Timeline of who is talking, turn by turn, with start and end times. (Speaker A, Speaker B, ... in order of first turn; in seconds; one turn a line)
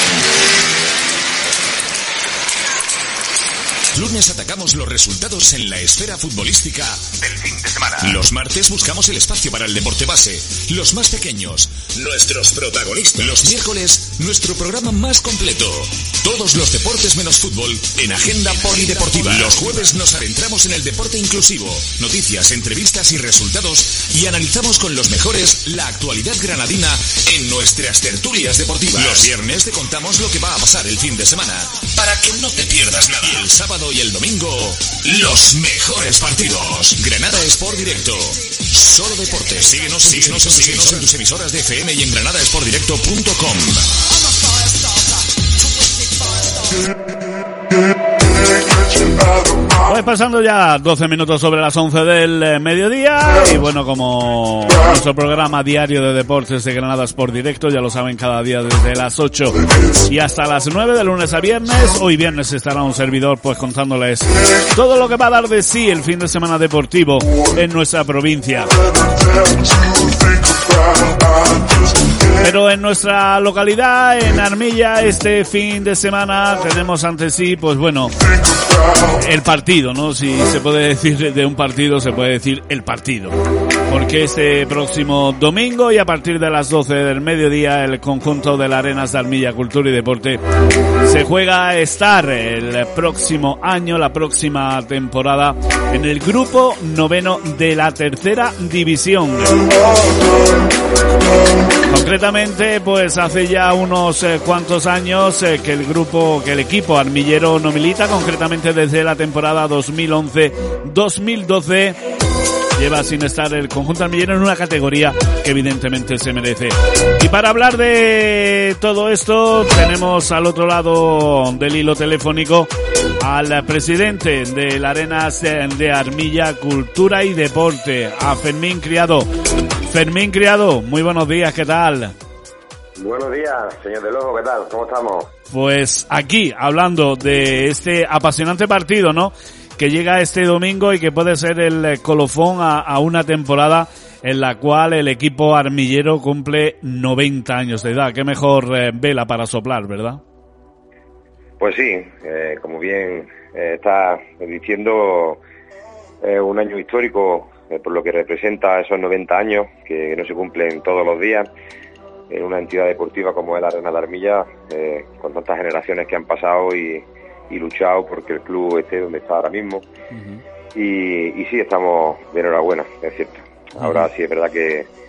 Speaker A: 3.9-43.9
Speaker B: 49.8-68.7
Speaker B: 72.4-78.1
Speaker B: 79.1-83.3
Speaker B: 83.9-90.4
Speaker B: 91.0-99.7
Speaker B: 101.9-112.0
Speaker B: 112.7-122.7
Speaker B: 123.2-129.3
Speaker B: 129.8-132.1
Speaker C: 133.0-135.3
Speaker B: 135.5-150.2
Speaker C: 151.6-155.4
Speaker C: 156.2-161.5
Speaker C: 162.3-169.8
Speaker B: 170.1-170.4
Speaker C: 170.7-174.9
Speaker B: 173.8-174.0